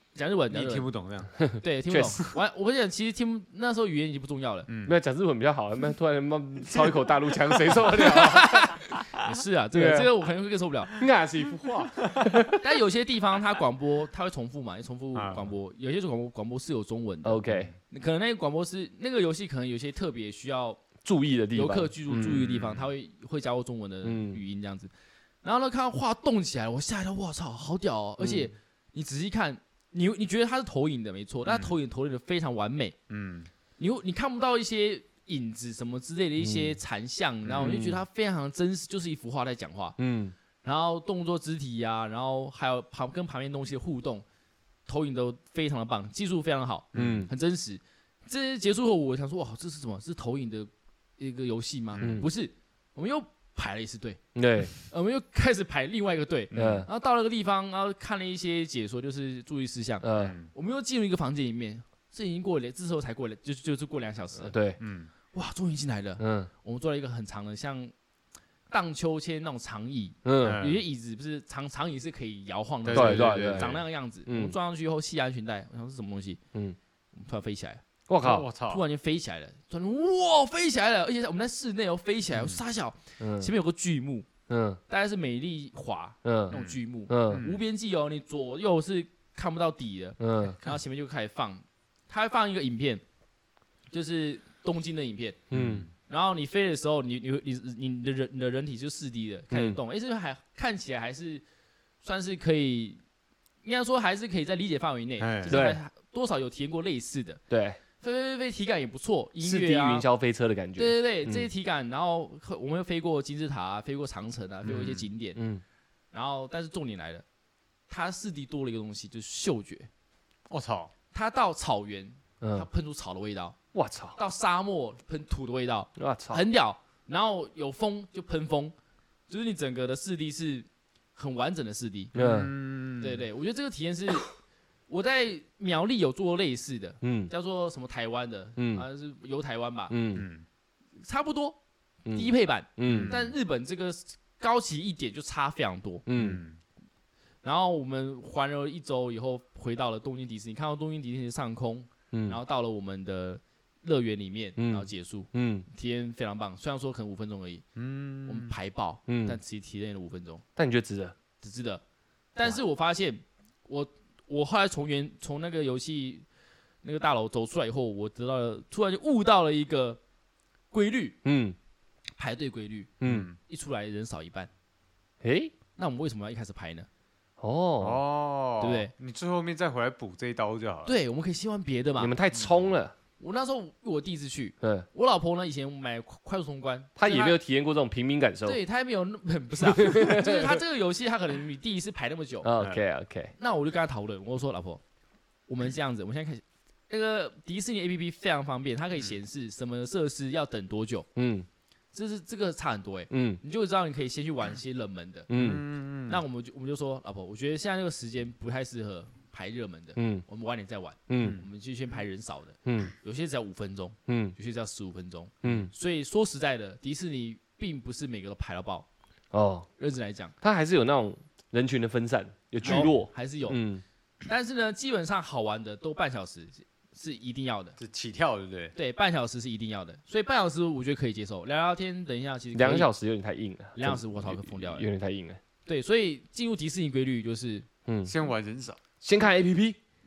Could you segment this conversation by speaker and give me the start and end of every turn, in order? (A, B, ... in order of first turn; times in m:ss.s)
0:00.1-0:00.9 A
0:00.5-0:01.4 B
0:01.4-0:02.2 C
0:01.6-0:04.7 A
0:04.7-0:05.0 B
0:04.8-0:08.9 C
0:08.0-0:10.9 A
0:09.7-0:10.1 C
0:11.0-0:12.6 C
0:12.6-0:20.8 A
0:15.1-0:15.5 B
0:17.2-0:17.7 C
0:21.0-0:22.2 C
0:21.5-0:24.9 A
0:22.1-0:22.9 B
0:24.0-0:24.4 C
0:25.4-0:33.0 A
0:28.2-0:28.5 C
0:31.4-0:31.7 B
0:33.1-0:33.5 B
0:33.8-0:40.0 A
0:36.4-0:36.8 C
0:37.4-0:37.9 B
0:37.6-0:38.0 C
0:40.0-0:40.3 C
0:40.6-0:44.2 A
0:44.9-0:54.2 A
0:46.9-0:47.3 B
0:46.9-0:47.3 C
0:51.9-0:52.2 B
0:52.0-0:52.3 C
0:54.3-0:54.7 C
0:54.7-1:04.6 A
0:56.5-0:56.8 B
0:56.5-0:56.9 C
1:00.0-1:00.3 C
1:00.1-1:00.5 B
1:04.4-1:04.8 C
1:04.8-1:05.1 B
1:05.3-1:07.9 A
1:06.2-1:06.5 C
1:08.7-1:16.4 A
1:10.2-1:10.6 C
1:10.4-1:10.8 B
1:12.8-1:13.8 B
1:12.9-1:14.6 C
1:17.1-1:17.8 A
1:18.1-1:18.5 C
1:18.2-1:18.8 B
1:18.6-1:24.3 A
1:23.2-1:23.5 C
1:24.5-1:24.8 C
1:24.9-1:33.0 A
1:26.2-1:27.4 C
1:26.5-1:26.8 B
1:27.3-1:27.6 B
1:30.2-1:30.6 C
1:33.9-1:35.4 A
1:35.5-1:35.9 C
1:35.5-1:35.9 B
1:36.1-1:41.4 A
1:39.5-1:39.8 C
1:42.0-1:43.0 A
1:43.6-1:47.4 A
1:45.2-1:45.6 B
1:45.5-1:45.8 C
1:47.5-1:47.8 C
1:48.0-1:50.1 A
1:49.4-1:51.4 C
1:50.8-1:55.4 A
1:54.6-1:55.1 B
1:55.4-1:55.6 C
1:56.1-1:57.2 A
1:57.9-1:59.9 A
2:00.5-2:00.9 B
2:01.1-2:03.6 A
2:02.4-2:02.7 C
2:03.7-2:04.2 C
2:04.2-2:08.7 A
2:06.0-2:06.4 C
2:09.3-2:12.1 A
2:12.1-2:12.5 C
2:12.1-2:13.2 B
2:13.0-2:14.3 A
2:14.9-2:20.0 A
2:17.0-2:17.3 C
2:18.6-2:18.8 C
2:19.9-2:20.2 C
2:20.1-2:20.4 B
2:21.0-2:21.6 A
2:22.0-2:23.2 C
2:22.1-2:26.0 A
2:22.8-2:23.3 B
2:26.1-2:26.4 C
2:26.1-2:26.6 B
2:27.4-2:37.6 A
2:32.1-2:32.4 C
2:34.6-2:35.7 C
2:37.8-2:38.5 B
2:38.2-2:40.4 A
2:39.1-2:39.4 C
2:40.6-2:41.1 C
2:41.4-2:41.8 A
2:42.3-2:46.2 A
2:46.8-2:50.0 A
2:50.7-2:51.2 A
2:51.2-2:51.6 C
2:52.2-2:54.5 A
2:53.0-2:53.3 C
2:53.0-2:53.4 B
2:55.2-2:55.5 C
2:55.8-2:56.9 A
2:57.4-2:58.0 C
2:57.8-3:00.9 B
2:58.6-2:58.9 A
3:00.8-3:02.1 A
3:02.0-3:03.0 C
3:02.3-3:02.6 B
3:03.2-3:07.4 A
3:04.6-3:04.8 C
3:07.0-3:08.6 C
3:08.4-3:12.6 A
3:09.6-3:10.6 C
3:12.4-3:13.3 C
3:13.4-3:14.8 A
3:15.5-3:21.1 A
3:21.2-3:21.5 C
3:21.9-3:25.3 A
3:23.1-3:23.4 C
3:25.3-3:25.6 C
3:25.3-3:26.2 B
3:26.1-3:38.9 A
3:30.0-3:30.2 C
3:31.1-3:31.4 C
3:32.6-3:32.9 C
3:34.1-3:34.3 C
3:35.4-3:35.7 C
3:39.3-3:39.7 C
3:39.8-3:40.3 A
3:40.4-3:43.8 C
3:42.6-3:43.6 A
3:44.3-3:47.8 A
3:47.8-3:48.7 B
3:48.7-3:52.9 A
3:52.5-3:55.4 C
3:53.7-3:54.9 A
3:55.6-3:57.7 A
3:57.9-3:58.1 C
3:58.0-3:58.8 B
3:59.0-3:59.8 C